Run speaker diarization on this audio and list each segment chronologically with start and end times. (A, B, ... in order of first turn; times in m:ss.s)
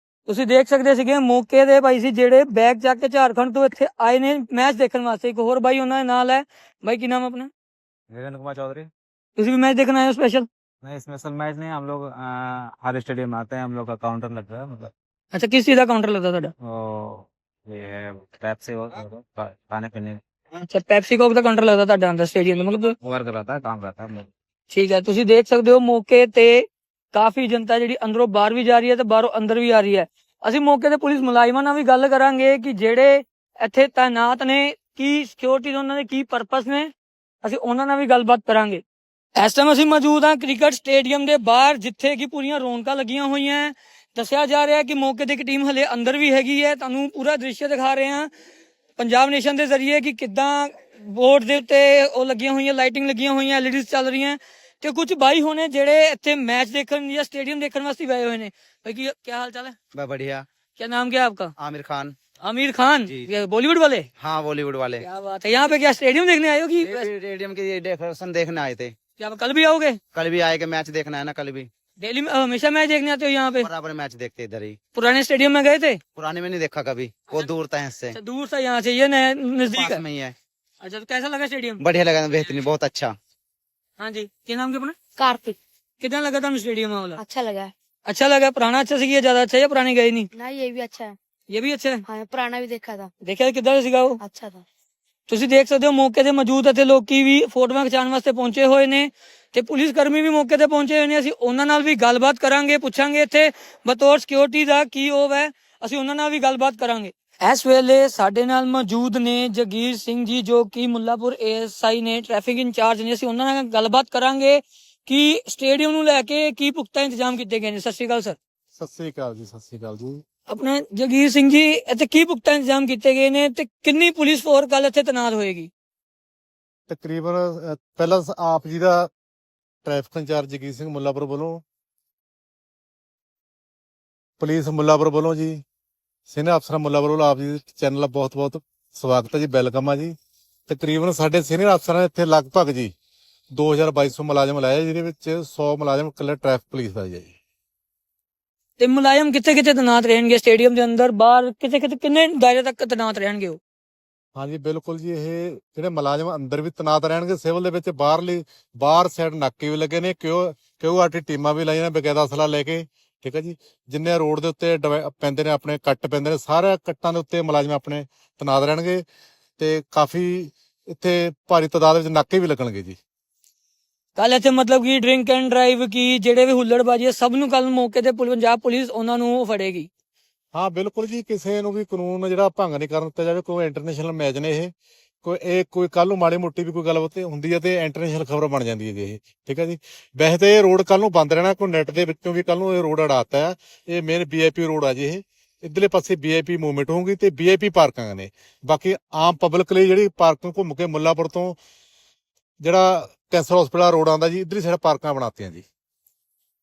0:00.3-0:07.5 A
0:08.1-0:08.9 B
0:09.4-0:10.5 A
0:10.8-0:14.9 B
0:15.3-0:16.5 A
0:16.6-0:20.2 B
0:20.6-0:22.9 A
0:23.0-0:24.3 B
0:24.7-0:36.9 A
0:37.4-0:38.8 A
0:39.4-0:48.3 A
0:49.0-0:59.8 A
0:59.9-1:00.4 C
1:00.8-1:01.5 A
1:01.6-1:02.2 C
1:02.4-1:04.1 A
1:04.2-1:05.1 C
1:05.0-1:07.1 A
1:06.8-1:08.9 C
1:09.2-1:10.0 A
1:10.1-1:11.7 C
1:12.0-1:13.7 A
1:13.6-1:14.8 C
1:15.0-1:16.0 A
1:16.2-1:18.2 C
1:18.1-1:20.0 A
1:19.7-1:20.4 C
1:20.8-1:21.8 A
1:21.8-1:23.1 C
1:24.0-1:25.0 A
1:25.2-1:25.6 D
1:26.0-1:27.2 A
1:27.2-1:27.7 D
1:28.1-1:30.3 A
1:30.4-1:31.1 D
1:31.5-1:32.0 A
1:32.1-1:33.1 D
1:33.2-1:34.2 A
1:34.2-1:34.6 D
1:35.3-1:58.4 A
1:58.8-2:00.2 E
2:00.5-2:05.7 A
2:06.9-2:09.1 E
2:09.8-2:11.6 E
2:14.4-2:15.6 E
2:16.3-2:20.1 E
2:20.7-2:22.9 E
2:23.5-2:27.3 E
2:28.8-2:33.6 A
2:34.4-2:49.0 E
2:49.6-2:53.0 E
2:54.2-2:59.9 A
3:00.6-3:04.7 E
3:05.2-3:21.6 E
3:22.6-3:25.6 E